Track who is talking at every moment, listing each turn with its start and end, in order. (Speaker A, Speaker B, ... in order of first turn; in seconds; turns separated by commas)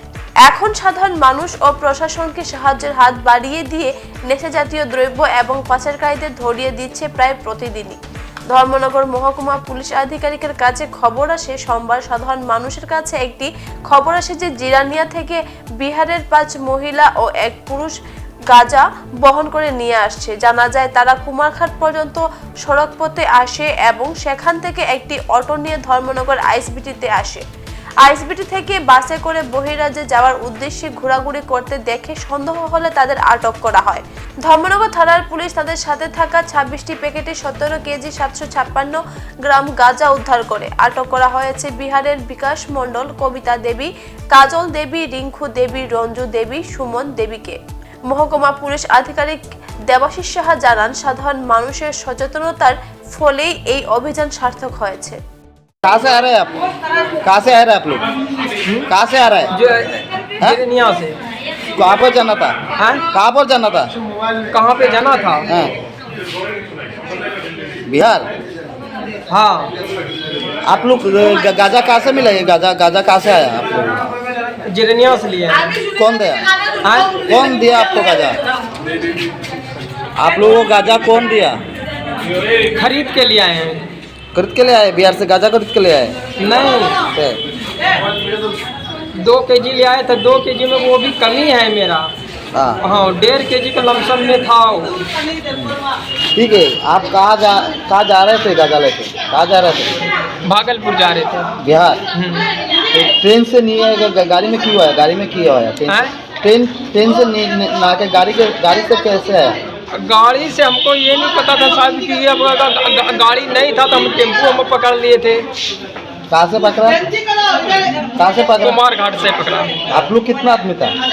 Speaker A: 0.5-8.0, Speaker A: 8.5-18.0, Speaker A: 18.5-27.4, Speaker A: 28.0-47.6, Speaker A: 48.1-55.2, Speaker B: 55.8-56.6, Speaker B: 57.2-58.1, Speaker B: 58.9-59.5, Speaker C: 59.5-61.2, Speaker B: 61.8-62.6, Speaker C: 62.8-63.0, Speaker B: 63.1-63.9, Speaker C: 64.5-65.5, Speaker B: 65.5-65.8, Speaker B: 67.9-68.3, Speaker C: 69.3-69.7, Speaker B: 70.7-74.1, Speaker C: 74.7-75.7, Speaker B: 75.9-76.5, Speaker C: 76.8-77.2, Speaker B: 77.2-78.4, Speaker B: 80.2-81.6, Speaker C: 82.7-83.9, Speaker B: 84.3-86.2, Speaker C: 86.4-87.0, Speaker B: 87.1-87.4, Speaker C: 89.2-92.1, Speaker B: 92.5-92.8, Speaker C: 92.8-94.9, Speaker B: 96.3-100.0, Speaker C: 100.4-101.5, Speaker B: 101.6-102.0, Speaker C: 102.1-102.5, Speaker B: 102.9-109.6, Speaker C: 105.9-106.2, Speaker C: 109.9-115.4, Speaker B: 116.3-117.0, Speaker B: 118.2-118.8, Speaker C: 118.6-119.8, Speaker B: 119.9-120.9